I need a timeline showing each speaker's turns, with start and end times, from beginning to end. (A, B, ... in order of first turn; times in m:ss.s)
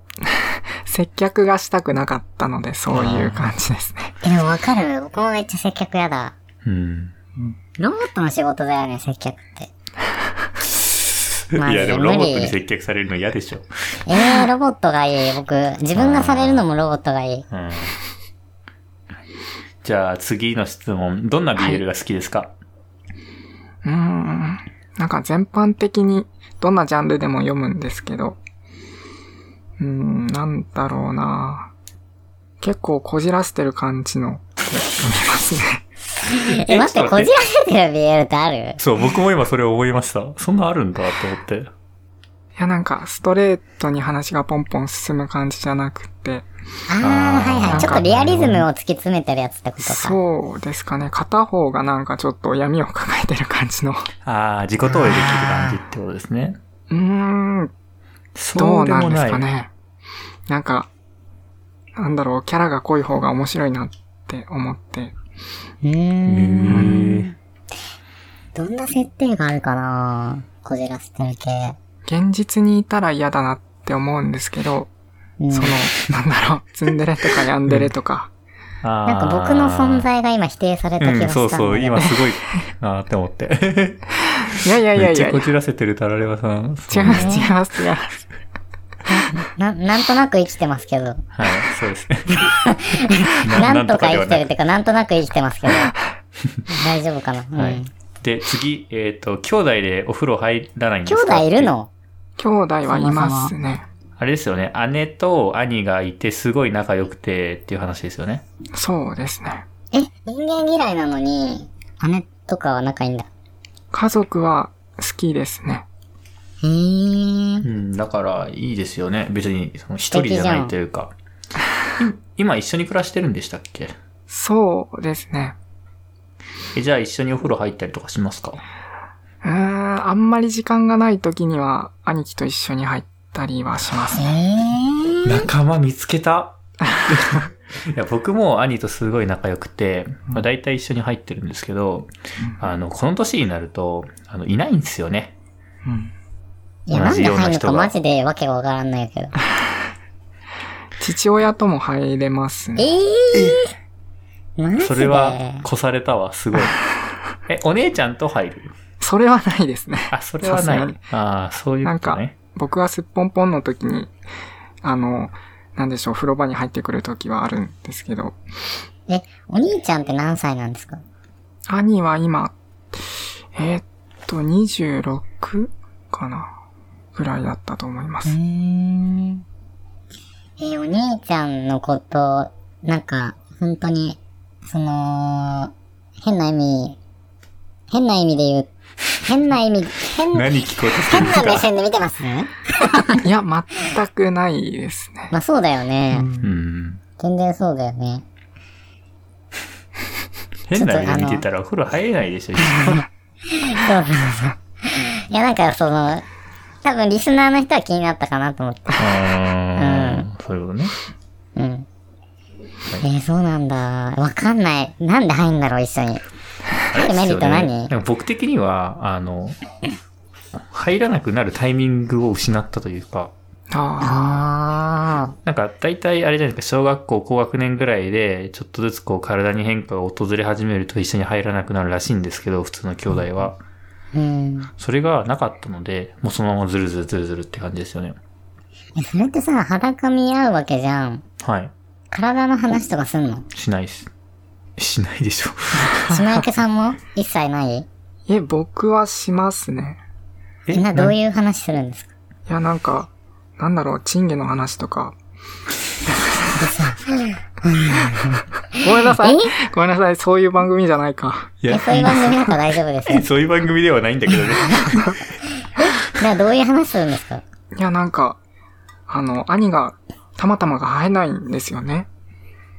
0:00.2-0:04.2 A
0:02.9-0:03.5 B
0:04.2-0:06.3 C
0:06.6-0:07.2 B
0:07.8-0:09.7 C
0:10.6-0:13.7 B
0:11.6-0:12.5 C
0:14.1-0:17.4 C
0:16.0-0:16.6 B
0:17.5-0:18.0 B
0:19.8-0:22.5 B
0:23.8-0:28.4 A
0:29.8-0:31.7 A
0:32.6-0:35.8 A
0:36.2-0:38.8 C
0:36.4-0:37.3 B
0:38.8-0:41.7 B
0:42.6-0:46.4 A
0:46.9-0:50.2 C
0:47.0-0:48.7 B
0:47.7-0:48.0 A
0:49.8-0:54.1 A
0:54.2-0:56.6 B
0:56.9-0:57.7 A
0:58.4-0:59.4 B
0:58.5-0:59.7 A
1:00.5-1:00.9 A
1:02.0-1:05.1 A
1:05.8-1:07.3 C
1:06.3-1:07.3 B
1:06.7-1:07.0 A
1:08.5-1:11.8 C
1:12.0-1:14.9 A
1:15.4-1:15.8 C
1:15.5-1:18.3 A
1:18.8-1:20.1 B
1:19.1-1:22.2 C
1:21.0-1:27.4 B
1:24.4-1:25.5 A
1:26.9-1:28.2 A
1:27.1-1:27.4 C
1:29.1-1:31.2 C
1:31.4-1:32.5 B
1:32.4-1:35.9 C
1:33.4-1:34.5 B
1:36.7-1:37.9 C
1:37.6-1:41.7 B
1:41.0-1:41.9 C
1:42.4-1:43.8 A
1:42.9-1:43.5 C
1:44.2-1:48.4 B
1:48.7-1:49.6 A
1:49.9-1:53.3 C
1:53.9-1:55.8 A
1:56.6-1:57.6 C
1:57.6-2:01.1 B
2:00.0-2:00.7 C
2:02.0-2:03.9 B
2:04.3-2:05.6 A
2:06.7-2:08.6 B
2:09.4-2:14.3 A
2:14.2-2:15.5 C
2:15.2-2:25.3 B
2:25.8-2:26.1 A
2:26.9-2:29.3 C
2:26.9-2:27.9 B
2:31.0-2:32.9 A
2:32.8-2:33.7 C
2:34.6-2:35.6 C
2:34.8-2:36.8 B
2:37.5-2:38.7 B
2:39.0-2:41.0 A
2:40.1-2:42.3 B
2:41.8-2:44.1 A
2:44.8-2:48.4 A
2:49.1-2:51.0 C
2:51.7-2:56.5 A
2:57.1-2:58.3 A
2:58.2-2:59.4 C
3:00.6-3:05.7 C
3:06.2-3:07.0 C
3:07.9-3:08.7 C
3:09.2-3:13.2 C
3:10.3-3:11.6 B
3:13.2-3:15.3 A
3:15.3-3:16.3 C
3:16.1-3:16.5 A
3:16.4-3:17.0 B
3:17.2-3:18.2 C
3:20.7-3:23.0 B
3:20.7-3:21.4 C
3:22.6-3:26.2 C
3:26.8-3:29.0 C
3:29.0-3:30.9 B
3:29.8-3:30.3 C
3:31.6-3:31.9 C
3:33.0-3:36.2 C
3:36.9-3:39.6 B
3:36.9-3:37.9 C
3:40.6-3:43.3 B
3:43.7-3:44.4 A
3:44.0-3:45.3 C
3:45.4-3:53.6 B
3:54.1-3:54.7 C
3:54.8-3:58.2 B
3:58.9-4:01.2 C
4:01.4-4:01.7 B
4:02.1-4:03.4 C
4:03.5-4:04.1 B
4:04.8-4:05.9 B
4:05.9-4:06.3 A
4:06.1-4:07.9 C
4:08.3-4:10.0 A
4:10.7-4:10.9 B
4:10.7-4:12.1 C
4:12.5-4:15.1 A
4:16.6-4:19.5 C
4:18.8-4:22.5 A
4:21.6-4:22.2 B
4:21.7-4:23.2 C
4:23.1-4:25.1 B
4:25.8-4:27.4 C
4:27.8-4:28.4 A
4:29.1-4:32.1 A